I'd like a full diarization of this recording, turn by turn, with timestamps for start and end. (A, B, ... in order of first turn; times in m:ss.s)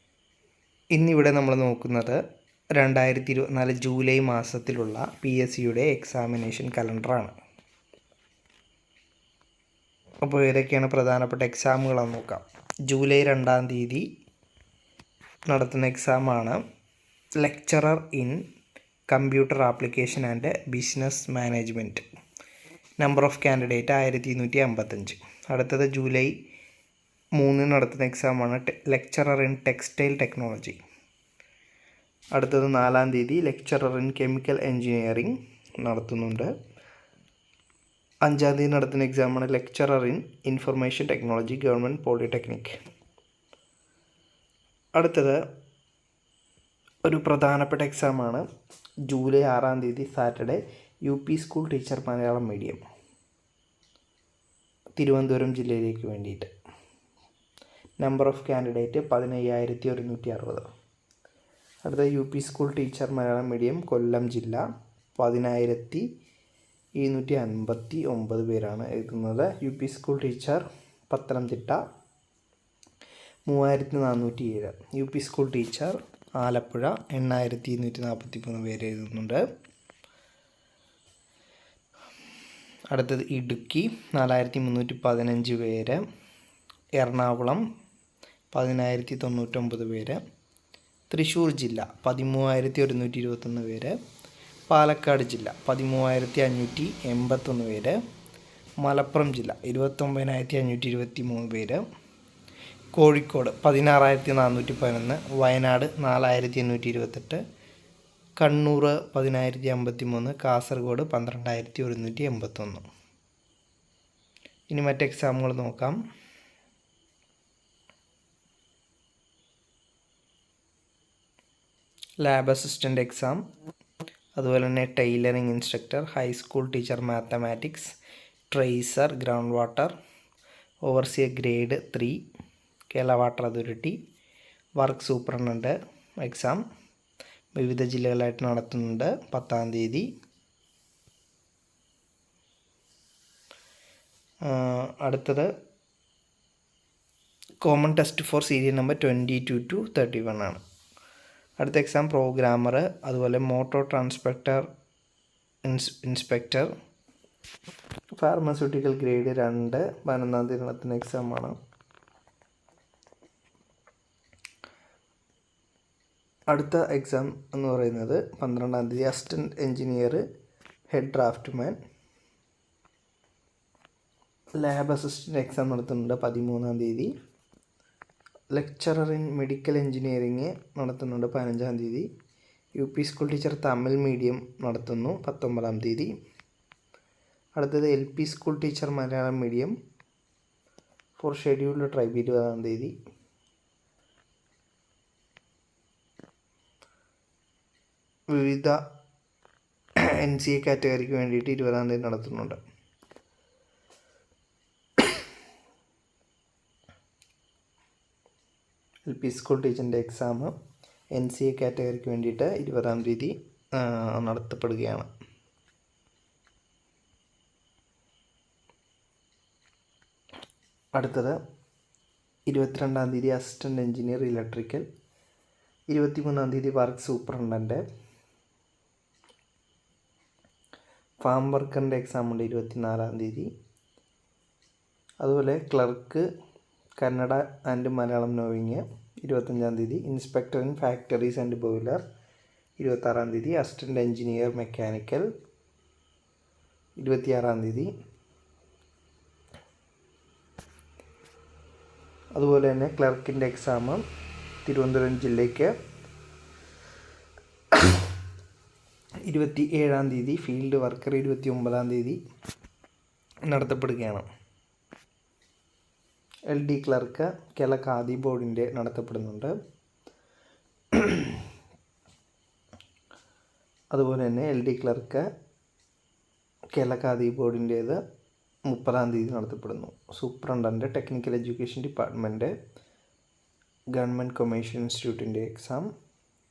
0:00.9-0:02.2 A
0:02.8-0:07.3 A
0:10.2-0:14.0 A
0:15.5-0:16.6 A
0:17.4-0:18.4 A
0:19.1-0:22.0 A
0:23.0-0:26.4 A
0:27.4-0:30.8 A
0:32.3-0:36.5 A
0:38.2-0:42.7 A
0:44.9-0:45.4 A
0:47.0-0:48.4 A
0:49.1-0:52.8 A
0:55.0-0:56.5 A
0:58.0-1:00.6 A
1:01.8-1:04.6 A
1:05.2-1:06.0 A
1:07.0-1:11.8 A
1:13.5-1:19.4 A
1:22.9-1:26.0 A
1:27.0-1:27.6 A
1:28.5-1:30.2 A
1:31.1-1:33.9 A
1:34.7-1:38.0 A
1:38.8-1:41.8 A
1:42.9-1:47.4 A
1:48.4-1:52.8 A
1:54.7-1:56.0 A
2:02.2-2:03.4 A
2:04.4-2:07.9 A
2:08.5-2:09.9 A
2:10.8-2:12.2 A
2:12.9-2:14.0 A
2:14.8-2:16.6 A
2:17.5-2:20.1 A
2:24.4-2:25.5 A
2:27.6-2:30.6 A
2:31.6-2:34.7 A
2:35.6-2:36.7 A
2:38.1-2:41.6 A
2:46.5-2:50.2 A
2:50.9-2:51.8 A
2:54.6-2:57.1 A
2:58.5-3:02.1 A
3:02.8-3:06.1 A
3:07.6-3:09.7 A
3:11.2-3:12.9 A
3:18.3-3:18.8 A
3:20.0-3:22.6 A
3:29.0-3:30.5 A
3:31.1-3:35.1 A
3:40.9-3:41.4 A
3:42.5-3:44.8 A
3:45.9-3:47.8 A
3:51.2-3:53.5 A
3:55.2-3:56.2 A
3:57.0-4:02.0 A
4:02.8-4:05.3 A
4:07.0-4:07.9 A
4:12.3-4:14.0 A
4:14.6-4:15.7 A
4:19.2-4:22.2 A
4:23.5-4:24.2 A
4:26.5-4:29.5 A
4:30.9-4:31.4 A
4:33.9-4:35.3 A
4:36.7-4:38.0 A
4:38.7-4:42.5 A
4:43.9-4:45.9 A